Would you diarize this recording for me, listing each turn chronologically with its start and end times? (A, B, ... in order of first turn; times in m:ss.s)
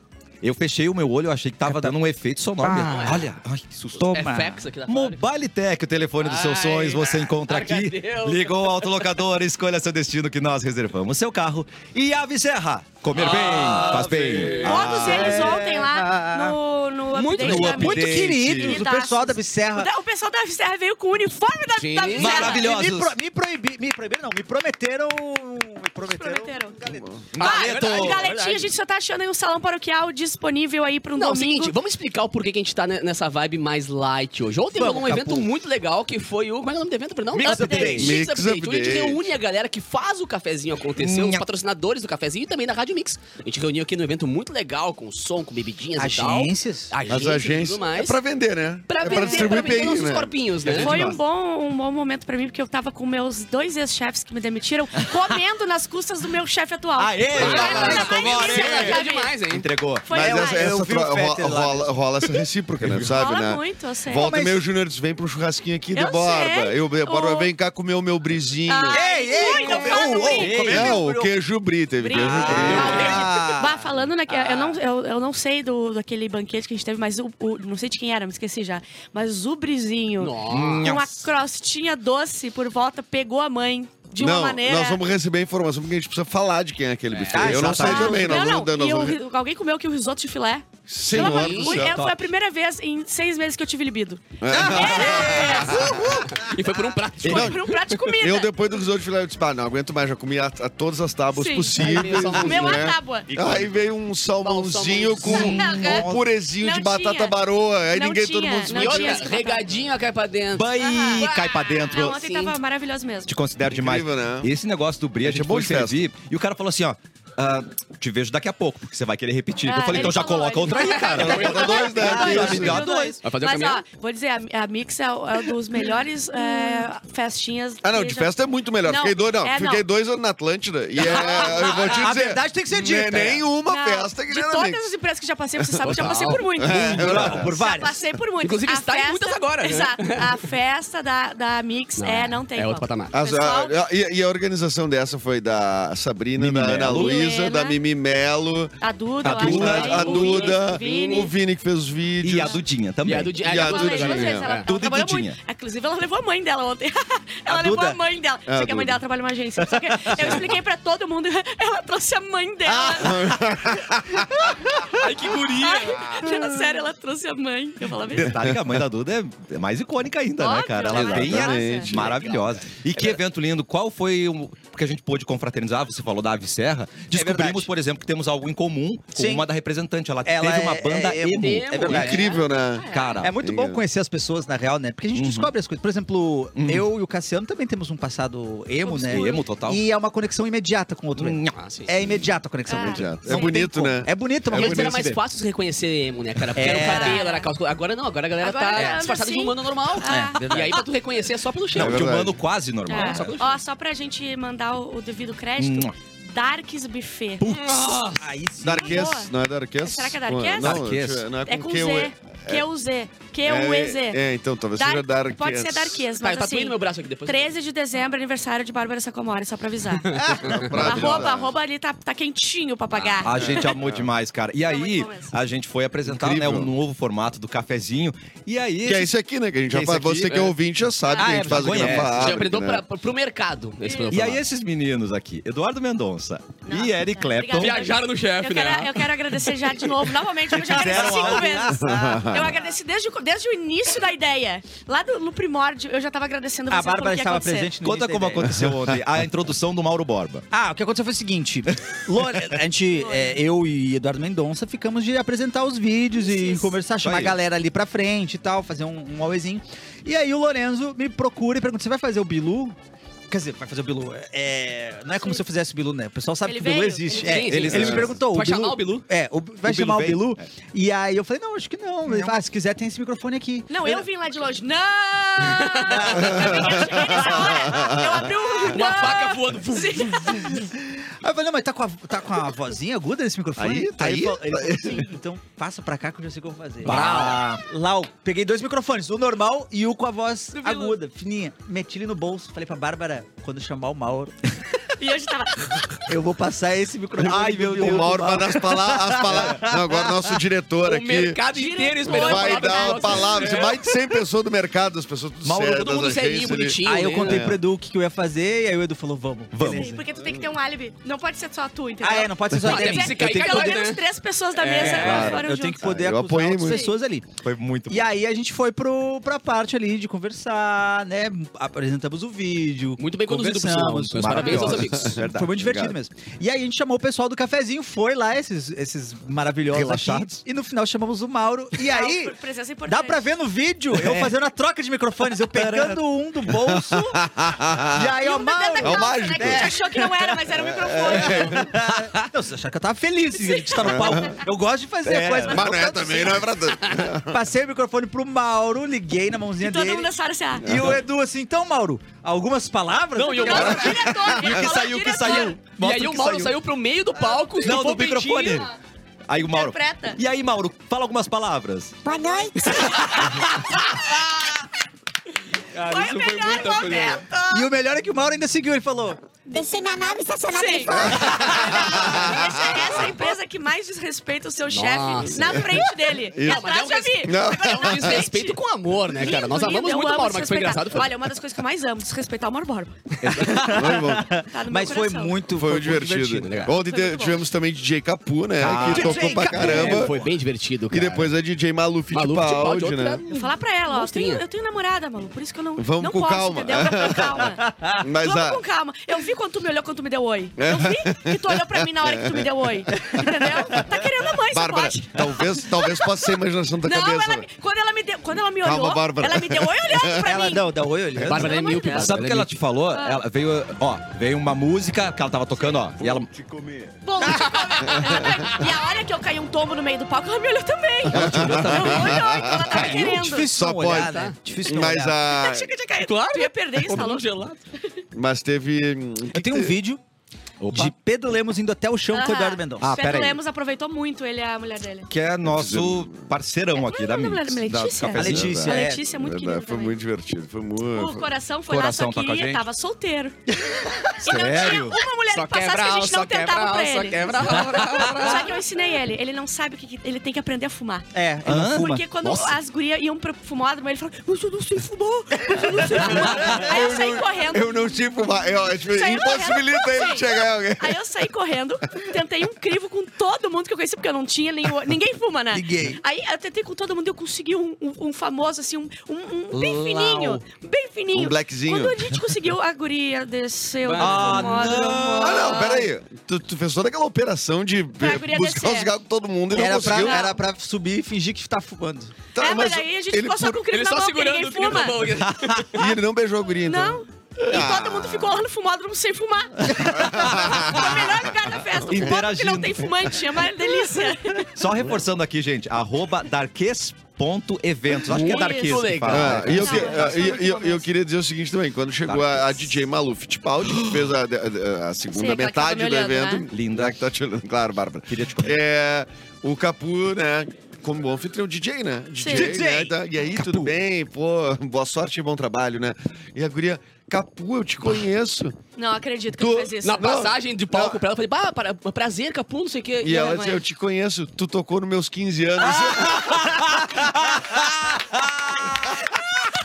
0:00.4-0:04.2 A
0:01.6-0:02.0 B
0:02.6-0:03.2 B
0:04.0-0:04.6 B
0:04.1-0:05.2 C
0:04.8-0:15.6 A
0:06.2-0:09.0 C
0:13.1-0:15.0 C
0:14.6-0:22.6 D
0:14.8-0:16.6 B
0:17.1-0:18.1 C
0:17.4-0:18.8 A
0:17.5-0:19.9 B
0:21.8-0:22.6 C
0:22.2-0:23.1 A
0:22.3-0:27.1 B
0:26.0-0:26.8 D
0:26.9-0:27.4 E
0:27.4-0:28.3 A
0:27.4-0:28.5 C
0:27.4-0:31.7 D
0:31.2-0:48.2 C
0:34.8-0:35.4 A
0:37.3-0:38.1 A
0:37.4-0:38.0 D
0:37.4-0:38.1 B
0:38.0-0:39.4 E
0:41.0-0:41.4 A
0:46.0-0:46.9 B
0:47.1-0:51.1 E
0:48.9-0:51.1 C
0:49.0-0:50.0 D
0:50.6-0:51.2 A
0:50.8-0:59.4 D
0:55.0-0:55.3 A
0:57.0-1:00.0 A
0:57.4-0:58.1 E
0:57.4-0:59.7 C
1:00.0-1:00.7 D
1:00.1-1:09.0 E
1:00.2-1:01.9 B
1:02.8-1:03.1 A
1:03.1-1:04.3 D
1:04.2-1:04.6 B
1:05.9-1:07.5 D
1:08.7-1:10.8 D
1:08.9-1:11.3 B
1:09.6-1:11.0 A
1:10.4-1:13.2 E
1:12.0-1:25.0 D
1:12.1-1:13.8 B
1:12.2-1:12.8 A
1:12.7-1:13.6 C
1:14.4-1:14.7 C
1:20.2-1:20.9 C
1:20.5-1:21.3 A
1:24.2-1:29.2 E
1:27.1-1:27.6 C
1:27.3-1:28.5 B
1:27.4-1:28.2 A
1:27.7-1:35.9 D
1:30.9-1:32.0 E
1:31.1-1:31.9 C
1:31.9-1:32.2 B
1:34.4-1:36.2 E
1:34.5-1:36.2 B
1:36.0-1:38.1 C
1:37.2-1:38.5 D
1:37.2-1:37.5 A
1:37.2-1:37.6 E
1:38.1-1:49.3 E
1:41.3-1:43.3 D
1:41.8-1:42.9 C
1:43.3-1:43.8 A
1:44.4-1:45.5 C
1:45.2-1:46.2 A
1:45.3-1:46.1 D
1:46.6-1:47.4 D
1:47.9-1:49.7 D
1:48.7-1:52.5 C
1:50.5-1:52.2 A
1:50.8-1:53.3 D
1:53.3-2:03.2 A
1:53.7-1:54.5 E
1:55.2-1:56.1 E
1:59.6-2:08.3 D
2:01.1-2:02.8 E
2:01.1-2:03.8 C
2:07.8-2:14.9 E
2:08.8-2:09.8 D
2:11.0-2:11.7 D
2:11.1-2:13.4 B
2:13.7-2:23.8 D
2:15.6-2:17.5 E
2:15.9-2:16.4 C
2:16.7-2:17.6 A
2:16.7-2:18.0 B
2:18.4-2:20.4 C
2:22.0-2:23.1 C
2:23.1-2:32.6 E
2:26.4-2:27.2 A
2:26.9-2:27.8 D
2:28.8-2:31.3 D
2:29.2-2:30.3 A
2:30.2-2:31.3 C
2:32.2-2:33.4 A
2:33.0-2:34.7 C
2:33.4-2:34.6 E
2:33.5-2:43.4 D
2:34.6-2:35.4 A
2:37.4-2:38.0 B
2:38.5-2:39.0 E
2:40.2-2:40.6 E
2:43.0-2:44.4 E
2:45.0-2:46.2 C
2:45.6-2:48.4 D
2:48.1-3:02.1 A
2:48.2-2:48.8 E
2:50.4-2:51.9 D
2:50.9-2:52.3 E
2:52.1-2:52.6 C
2:57.1-2:57.7 B
2:59.2-2:59.4 B
3:00.2-3:02.3 B
3:01.4-3:03.2 C
3:01.9-3:03.8 E
3:02.9-3:03.3 A
3:03.2-3:15.2 B
3:05.1-3:05.5 A
3:06.6-3:06.8 A
3:08.8-3:09.4 D
3:09.0-3:09.8 A
3:11.2-3:11.6 A
3:11.5-3:11.9 C
3:12.7-3:13.6 D
3:12.8-3:15.0 E
3:14.5-3:22.1 C
3:16.5-3:17.2 B
3:16.7-3:17.5 D
3:18.4-3:20.9 D
3:20.0-3:20.7 B
3:21.7-3:23.3 A
3:21.7-3:22.4 E
3:22.9-3:27.5 D
3:22.9-3:23.6 C
3:25.6-3:25.9 A
3:27.4-3:28.2 A
3:27.5-3:28.0 C
3:28.2-3:29.0 B
3:28.6-3:32.6 E
3:28.8-3:30.8 D
3:30.6-3:31.3 A
3:31.4-3:34.2 D
3:33.4-3:36.1 E
3:34.8-3:43.7 D
3:36.2-3:37.5 C
3:40.1-3:41.2 C
3:40.1-3:40.7 B
3:40.2-3:41.5 E
3:42.9-3:43.3 C
3:43.2-3:49.1 A
3:43.3-3:44.0 E
3:44.6-3:45.3 D
3:46.0-3:46.7 E
3:48.8-3:52.8 E
3:49.6-3:50.5 A
3:50.2-3:50.5 C
3:51.0-3:51.6 D
3:51.2-3:52.3 B
3:51.5-3:52.4 A
3:52.0-3:54.4 C
3:53.8-3:54.2 D
3:54.1-3:57.8 A
3:56.6-4:07.7 D
3:57.6-3:59.0 C
4:00.5-4:01.6 A
4:01.0-4:02.3 B
4:01.7-4:02.6 E
4:06.7-4:08.7 B
4:07.8-4:10.4 A
4:10.5-4:22.8 B
4:12.9-4:13.4 D
4:16.2-4:16.7 D
4:17.0-4:17.4 A
4:23.3-4:34.0 B
4:26.4-4:27.4 D
4:27.1-4:29.0 C
4:27.4-4:28.1 A
4:27.7-4:28.1 E
4:29.6-4:30.5 A
4:33.7-4:40.6 D
4:35.5-4:36.0 C
4:36.0-4:36.4 B
4:36.1-4:38.7 E
4:38.6-4:40.1 C
4:40.1-4:54.3 B
4:43.6-4:45.0 E
4:46.8-4:47.6 A
4:50.5-4:51.0 D
4:55.0-4:56.0 D
4:56.0-5:00.2 B
4:57.2-4:58.2 A
4:57.8-5:01.4 E
5:00.8-5:03.7 C
5:01.5-5:03.7 D
5:02.1-5:07.6 E
5:05.4-5:05.8 A
5:05.5-5:07.5 C
5:06.8-5:09.9 B
5:09.5-5:10.0 A
5:09.6-5:15.8 D
5:10.2-5:10.5 E
5:12.0-5:13.8 B
5:12.6-5:14.0 C
5:14.6-5:15.3 C
5:14.8-5:17.2 B
5:14.9-5:16.9 E
5:17.4-5:18.1 A
5:17.9-5:32.3 B
5:23.0-5:25.1 C
5:24.2-5:25.0 A
5:24.2-5:26.0 E
5:29.7-5:30.4 A
5:31.8-5:33.2 D
5:32.9-5:37.2 B
5:33.9-5:34.4 A
5:35.4-5:36.0 A
5:36.5-5:38.2 E
5:37.9-5:40.2 B
5:38.2-5:41.7 D
5:38.8-5:39.7 E
5:40.6-5:41.6 E
5:41.2-5:46.5 B
5:41.8-5:42.2 A
5:43.4-5:43.7 D
5:43.8-5:44.4 E
5:45.0-5:45.6 A
5:45.4-5:47.4 E
5:47.2-5:50.1 B
5:49.6-5:50.6 D
5:50.6-5:54.1 B
5:50.6-5:51.0 E
5:53.2-5:54.2 C
5:53.3-5:55.6 D
5:53.6-5:54.7 E
5:54.2-5:56.6 A
5:55.2-5:58.6 C
5:57.6-5:58.7 A
5:59.3-6:02.0 A
5:59.5-6:00.2 D
6:02.0-6:02.9 F
6:02.5-6:04.4 A
6:05.8-6:07.7 D
6:06.2-6:07.1 E
6:06.7-6:07.0 C
6:07.5-6:09.2 B
6:09.5-6:18.6 D
6:09.5-6:11.4 F
6:10.9-6:13.1 E
6:14.7-6:15.8 C
6:15.4-6:16.7 E
6:16.4-6:21.1 C
6:17.2-6:18.3 E
6:19.1-6:22.9 D
6:23.2-6:23.7 A
6:23.2-6:26.7 B
6:23.6-6:24.3 E
6:24.4-6:25.4 D
6:25.5-6:30.2 E
6:26.4-6:26.7 C
6:26.7-6:27.5 D
6:28.6-6:29.3 A
6:28.7-6:30.3 B
6:28.8-6:31.3 C
6:30.9-6:33.2 E
6:32.1-6:33.2 C
6:33.3-6:37.6 D
6:33.9-6:34.4 C
6:35.8-6:38.6 E
6:37.6-6:38.0 B
6:38.2-6:50.7 D
6:40.6-6:42.4 E
6:44.5-6:47.4 E
6:48.6-6:50.3 E
6:50.2-6:51.5 B
6:51.2-6:52.6 C
6:51.2-6:51.5 E
6:51.3-6:52.2 D
6:52.0-6:56.3 A
6:52.9-6:53.2 D
6:56.0-6:56.9 E
6:57.0-7:03.5 D
6:57.8-6:58.6 E
7:01.1-7:05.7 E
7:01.2-7:02.2 C
7:02.7-7:05.2 B
7:04.1-7:04.4 C
7:05.3-7:07.3 D
7:06.0-7:07.6 C
7:08.1-7:09.7 E
7:09.3-7:10.0 B
7:10.6-7:10.9 A
7:10.7-7:12.9 B
7:12.1-7:15.1 D
7:12.8-7:13.4 A
7:15.1-7:18.6 A
7:15.4-7:16.2 E
7:16.7-7:20.0 D
7:18.2-7:19.0 B
7:18.2-7:21.3 E
7:20.9-7:23.5 D
7:21.7-7:22.6 A
7:24.2-7:25.0 A
7:24.2-7:31.1 D
7:25.3-7:28.5 C
7:31.1-7:32.0 B
7:31.4-7:32.6 A
7:31.7-7:37.8 D
7:35.5-7:36.2 B
7:36.0-7:41.0 E
7:36.2-7:36.6 A
7:38.9-7:55.9 D
7:45.5-7:46.0 B
7:49.5-7:50.4 C
7:51.1-7:52.1 E
7:53.8-7:54.8 C
7:54.0-7:55.6 A
7:55.2-8:00.3 E
7:58.0-7:58.9 D
7:59.5-8:00.3 D
7:59.5-8:02.1 B
8:02.4-8:03.6 E
8:02.4-8:05.1 D
8:03.7-8:05.9 C
8:05.7-8:08.4 E
8:06.6-8:14.5 D
8:09.7-8:10.3 B
8:09.8-8:11.3 E
8:10.4-8:10.8 A
8:11.8-8:13.0 A
8:14.5-8:20.0 A
8:18.0-8:20.4 C
8:18.1-8:20.9 D
8:19.1-8:38.6 E
8:22.0-8:22.7 A
8:25.1-8:26.5 D
8:26.5-8:27.0 A
8:28.1-8:28.6 A
8:32.2-8:32.5 D
8:32.2-8:33.7 B
8:38.8-8:40.1 D
8:39.3-8:41.0 E
8:39.8-8:43.2 C
8:43.0-8:46.6 E
8:43.0-8:43.6 D
8:45.8-8:48.7 A
8:47.2-8:47.6 E